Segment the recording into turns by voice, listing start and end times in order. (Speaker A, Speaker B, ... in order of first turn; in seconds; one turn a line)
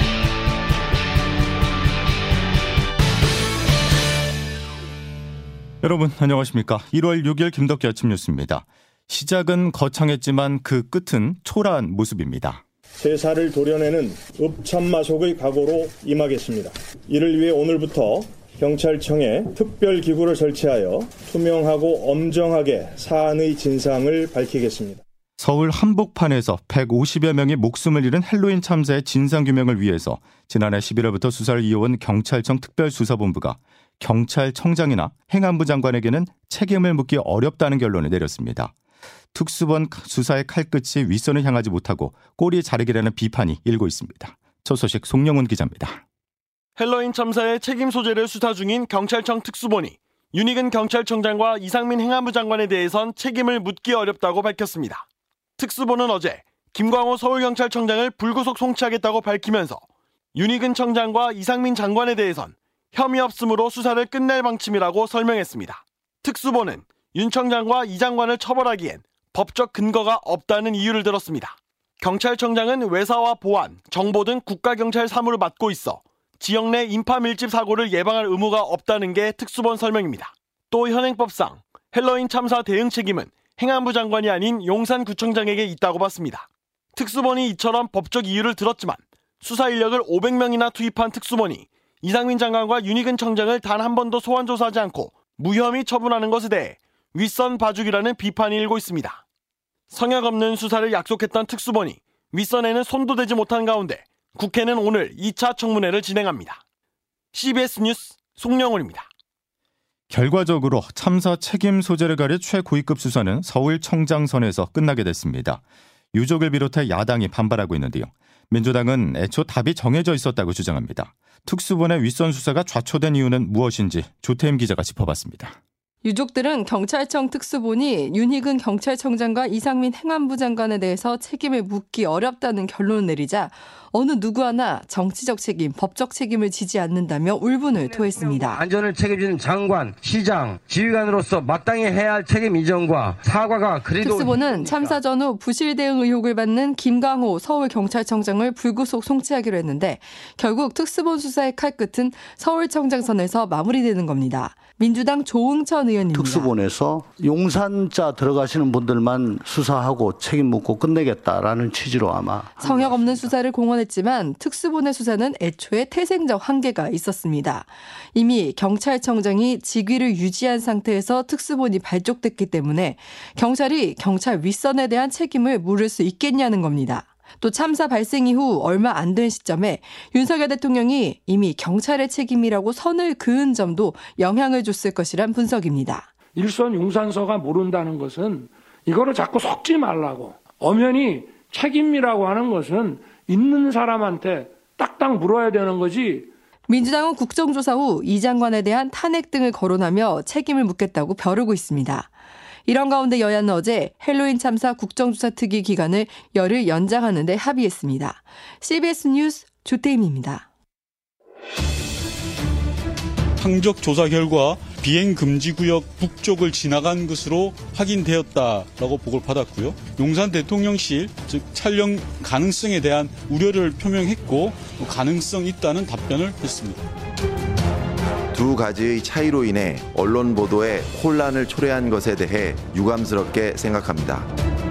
Speaker A: 5.8-12.6
Speaker B: 13.0-24.9
Speaker A: 25.4-38.7
Speaker A: 39.3-46.0
Speaker C: 46.8-55.0
Speaker C: 55.6-59.8
Speaker C: 60.3-99.2
Speaker C: 99.9-106.6
Speaker C: 107.3-109.0
Speaker A: 110.1-115.6
Speaker A: 116.1-125.6
Speaker D: 126.0-138.6
Speaker E: 137.8-145.0
Speaker D: 144.0-156.6
Speaker F: 156.1-163.3
Speaker D: 162.6-186.1
Speaker G: 186.4-196.3
Speaker D: 196.7-202.1
Speaker D: 202.7-210.5
Speaker H: 213.4-226.9
Speaker I: 228.3-234.3